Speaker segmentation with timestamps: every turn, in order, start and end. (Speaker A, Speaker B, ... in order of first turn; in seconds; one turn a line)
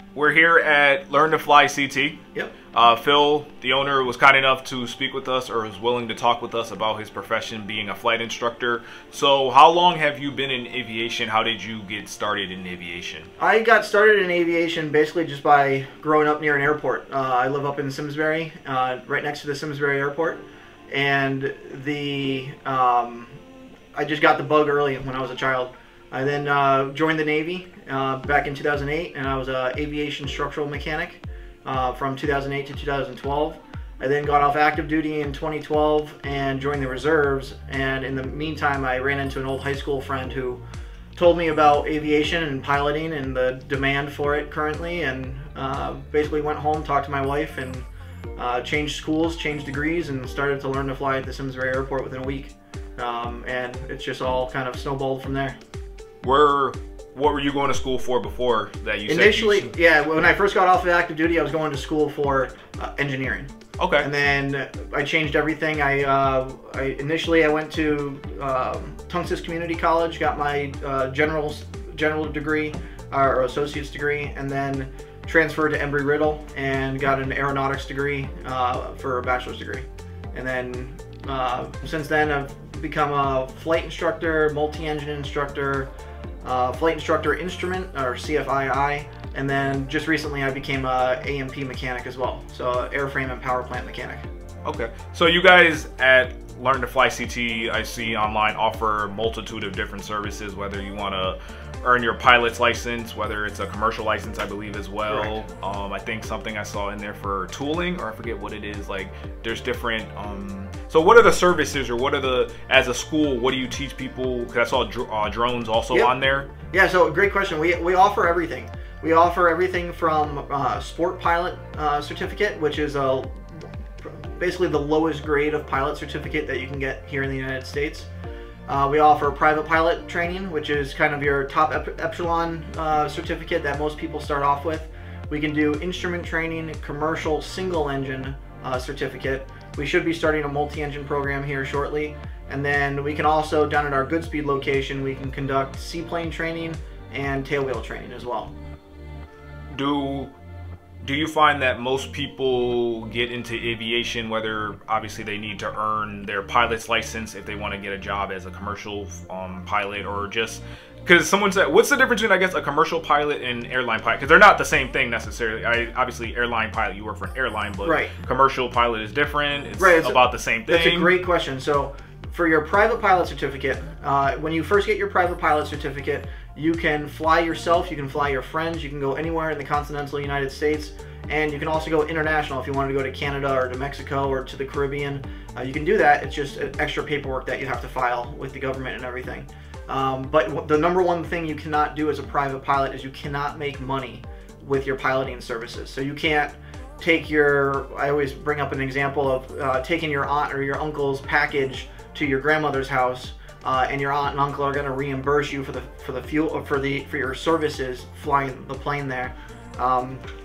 Speaker A: 0.1-13.3
Speaker B: 13.4-23.4
Speaker B: 23.9-40.6
Speaker B: 41.1-55.6
Speaker A: 56.2-59.8
Speaker B: 59.1-85.9
Speaker A: 63.8-64.1
Speaker B: 86.4-94.3
Speaker A: 94.7-116.5
Speaker B: 116.7-128.1
Speaker B: 128.7-148.5
Speaker A: 149.7-150.3
Speaker A: 151.0-171.1
Speaker B: 167.8-168.2
Speaker B: 169.8-210.2